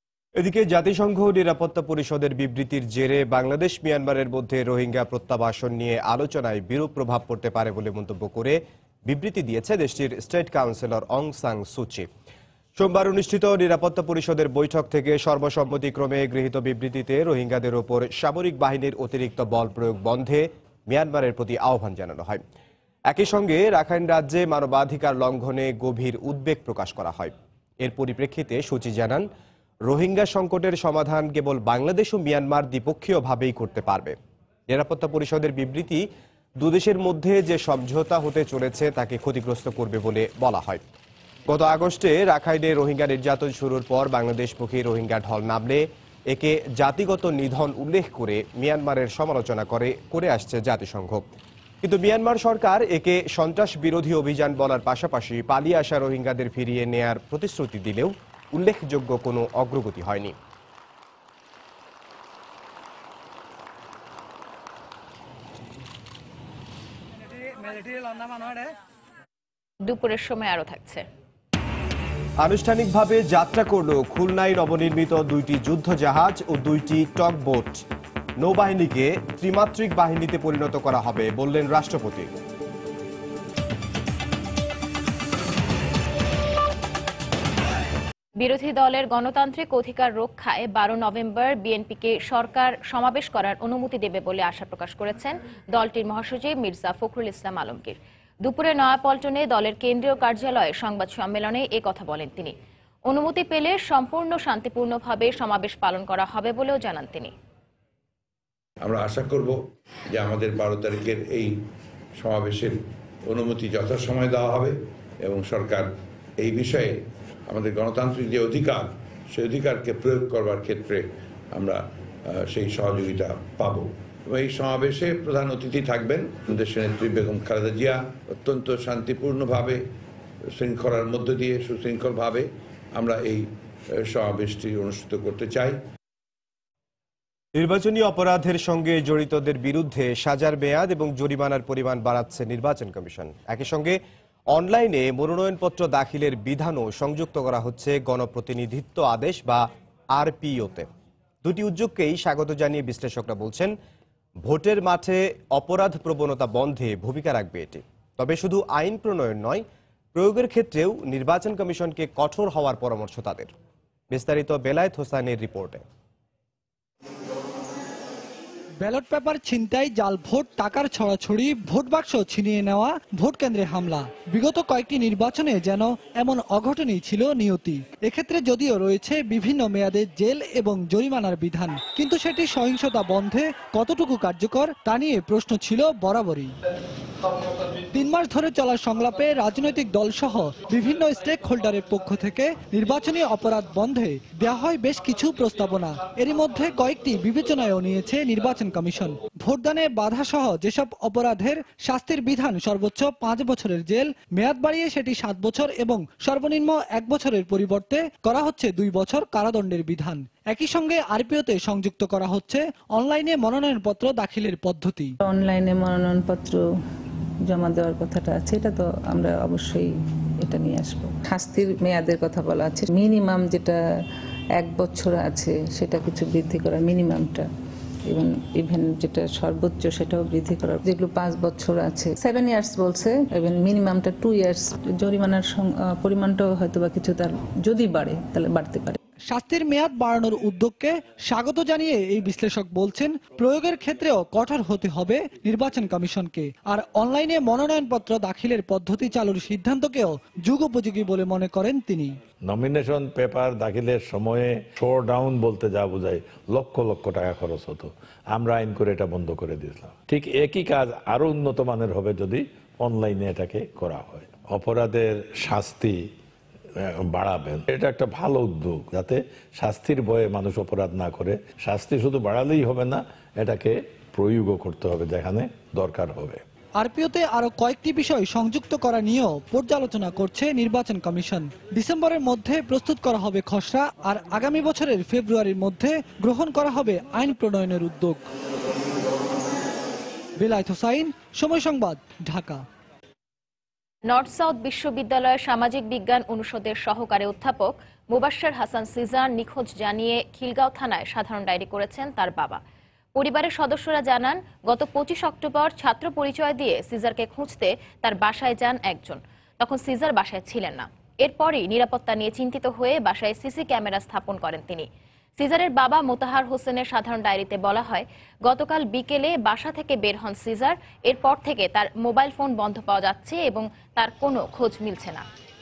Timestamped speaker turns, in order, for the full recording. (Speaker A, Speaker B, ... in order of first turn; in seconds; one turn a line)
Speaker A: 0.4-12.1
Speaker A: 12.8-22.4
Speaker A: 23.1-29.3
Speaker A: 29.9-34.1
Speaker A: 34.7-36.0
Speaker A: 36.6-40.8
Speaker A: 41.5-51.2
Speaker A: 51.8-60.3
Speaker B: 69.8-71.0
Speaker A: 72.4-77.8
Speaker A: 78.4-82.3
Speaker B: 88.4-102.5
Speaker B: 103.1-107.3
Speaker C: 108.8-109.6
Speaker C: 110.1-111.6
Speaker C: 112.2-129.8
Speaker C: 130.5-135.8
Speaker A: 137.6-144.0
Speaker A: 144.5-150.9
Speaker A: 151.4-153.7
Speaker A: 154.4-163.5
Speaker A: 164.1-165.8
Speaker D: 168.8-186.5
Speaker D: 187.9-215.1
Speaker E: 215.2-216.6
Speaker E: 217.5-219.9
Speaker E: 220.4-223.8
Speaker E: 224.6-227.5
Speaker E: 228.1-239.0
Speaker D: 239.3-252.2
Speaker F: 252.4-266.0
Speaker F: 266.8-276.4
Speaker D: 276.8-288.2
Speaker D: 290.4-292.6
Speaker B: 294.1-302.6
Speaker B: 303.1-314.9
Speaker B: 315.4-325.2